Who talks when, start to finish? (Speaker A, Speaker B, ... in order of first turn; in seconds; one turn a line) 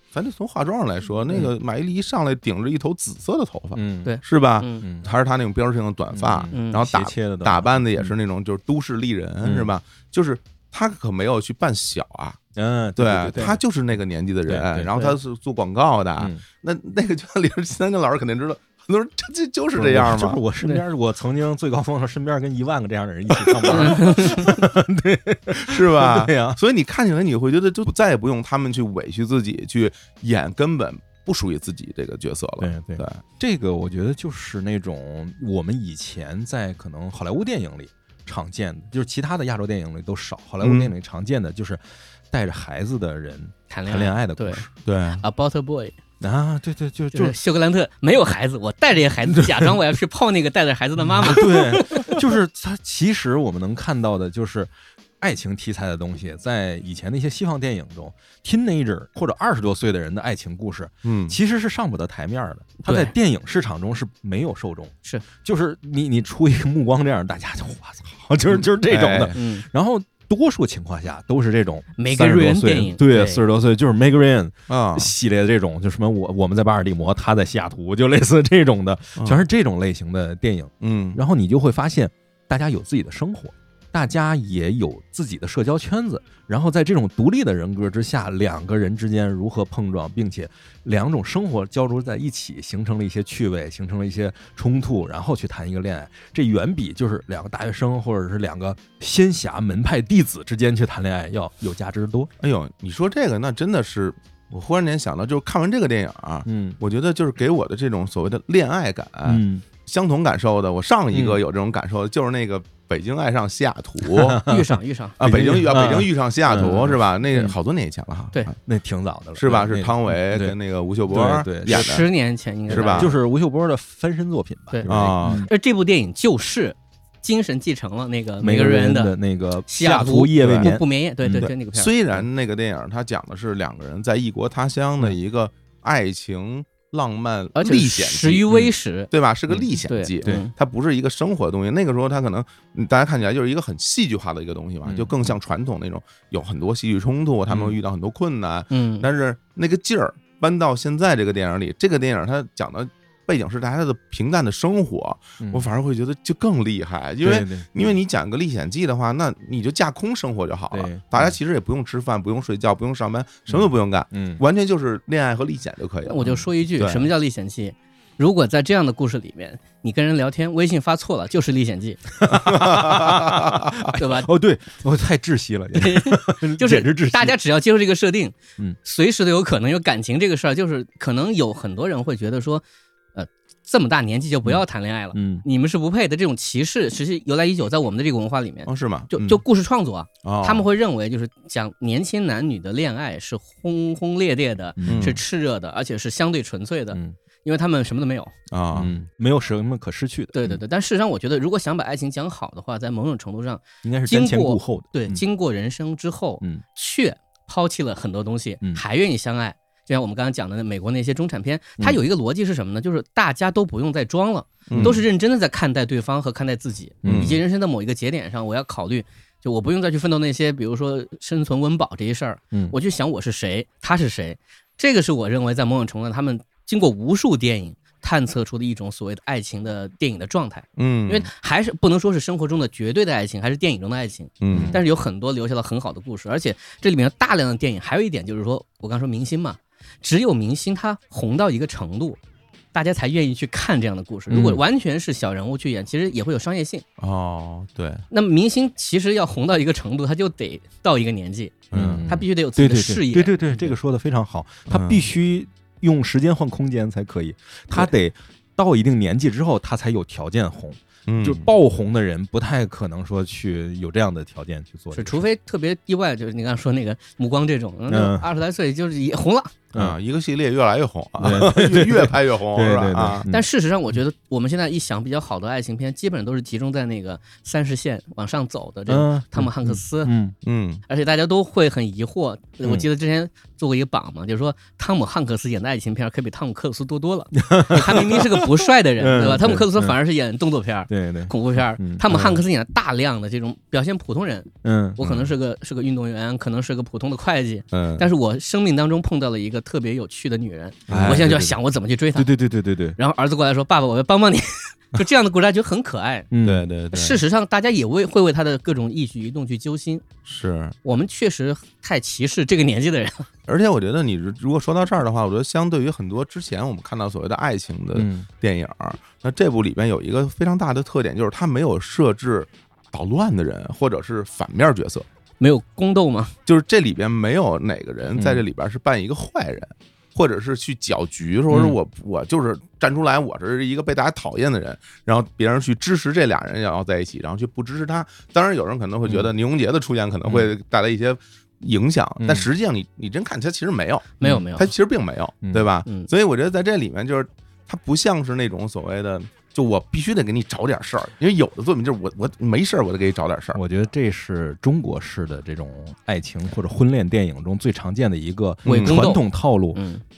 Speaker A: 0.1-12.4
Speaker B: 3.7-4.2
Speaker C: 4.0-4.8
Speaker B: 4.8-5.1
Speaker B: 6.1-8.1
Speaker C: 6.5-6.8
Speaker B: 9.4-9.7
Speaker B: 12.6-13.6
Speaker A: 12.9-20.4
Speaker B: 14.5-15.1
Speaker B: 16.2-16.4
Speaker B: 19.7-26.6
Speaker A: 23.6-23.9
Speaker C: 23.7-24.6
Speaker A: 25.6-33.2
Speaker B: 32.6-44.7
Speaker A: 40.6-40.9
Speaker C: 43.7-44.7
Speaker A: 44.9-45.2
Speaker C: 45.2-46.0
Speaker B: 46.2-47.4
Speaker C: 47.1-52.2
Speaker B: 49.4-49.7
Speaker B: 51.2-102.3
Speaker A: 61.0-61.4
Speaker C: 62.9-63.1
Speaker A: 68.5-69.4
Speaker C: 69.3-69.7
Speaker C: 72.0-73.4
Speaker A: 74.7-75.1
Speaker A: 79.2-79.4
Speaker A: 80.8-81.2
Speaker A: 102.4-114.4
Speaker B: 106.5-106.8
Speaker B: 109.2-109.6
Speaker B: 111.1-111.4
Speaker B: 114.2-114.6
Speaker C: 114.5-115.2
Speaker A: 115.2-118.5
Speaker B: 115.2-117.5
Speaker B: 118.7-120.5
Speaker A: 119.3-122.1
Speaker B: 121.1-122.0
Speaker C: 121.6-123.1
Speaker A: 122.7-123.1
Speaker B: 122.7-125.5
Speaker C: 124.7-129.1
Speaker A: 124.8-125.5
Speaker B: 128.4-131.5
Speaker C: 129.7-132.3
Speaker A: 130.4-130.8
Speaker A: 131.3-167.1
Speaker C: 137.6-139.1
Speaker C: 139.8-140.5
Speaker B: 144.8-145.1
Speaker B: 147.5-147.8
Speaker C: 148.7-149.1
Speaker B: 155.4-155.7
Speaker B: 157.2-157.9
Speaker B: 160.7-161.3
Speaker B: 163.5-164.4
Speaker C: 166.0-172.1
Speaker B: 172.2-177.3
Speaker A: 172.5-173.8
Speaker C: 173.9-174.3
Speaker C: 175.7-182.6
Speaker C: 183.1-198.3
Speaker B: 185.1-185.4
Speaker A: 188.7-189.4
Speaker A: 190.2-190.7
Speaker B: 194.8-195.2
Speaker A: 194.8-195.2
Speaker A: 198.5-198.9
Speaker B: 198.7-200.6
Speaker C: 200.3-242.2
Speaker B: 203.8-205.2
Speaker A: 214.7-215.0
Speaker B: 214.7-215.0
Speaker B: 217.0-217.4
Speaker A: 217.1-217.4
Speaker A: 230.8-231.3
Speaker A: 234.4-234.8
Speaker B: 234.5-234.8
Speaker C: 242.7-246.8
Speaker B: 244.3-244.6
Speaker A: 247.0-248.0
Speaker C: 248.1-253.7
Speaker A: 251.7-252.1
Speaker B: 251.7-265.2
Speaker A: 254.7-255.1
Speaker A: 261.1-261.5
Speaker C: 264.9-269.6
Speaker B: 267.9-268.3
Speaker A: 269.7-273.2
Speaker B: 271.2-273.4
Speaker C: 273.3-280.1
Speaker B: 278.9-280.3
Speaker A: 280.4-280.8
Speaker C: 280.9-302.3
Speaker B: 287.4-288.5
Speaker B: 289.0-289.9
Speaker B: 290.9-292.4
Speaker B: 294.6-295.1
Speaker A: 297.7-298.1
Speaker A: 300.9-301.3
Speaker B: 300.9-301.6
Speaker B: 302.1-303.0
Speaker C: 303.0-306.3
Speaker B: 306.3-306.7
Speaker A: 306.4-307.2
Speaker C: 306.9-310.1
Speaker A: 310.2-310.7
Speaker C: 310.8-313.3
Speaker A: 313.5-325.1
Speaker B: 317.9-318.3
Speaker C: 325.4-326.3
Speaker A: 326.4-353.6
Speaker B: 328.1-328.4
Speaker B: 331.5-331.8
Speaker B: 340.2-340.5
Speaker B: 342.2-342.5
Speaker C: 344.2-344.7
Speaker B: 345.4-345.7
Speaker B: 353.6-359.8
Speaker A: 358.6-359.0
Speaker C: 358.7-360.0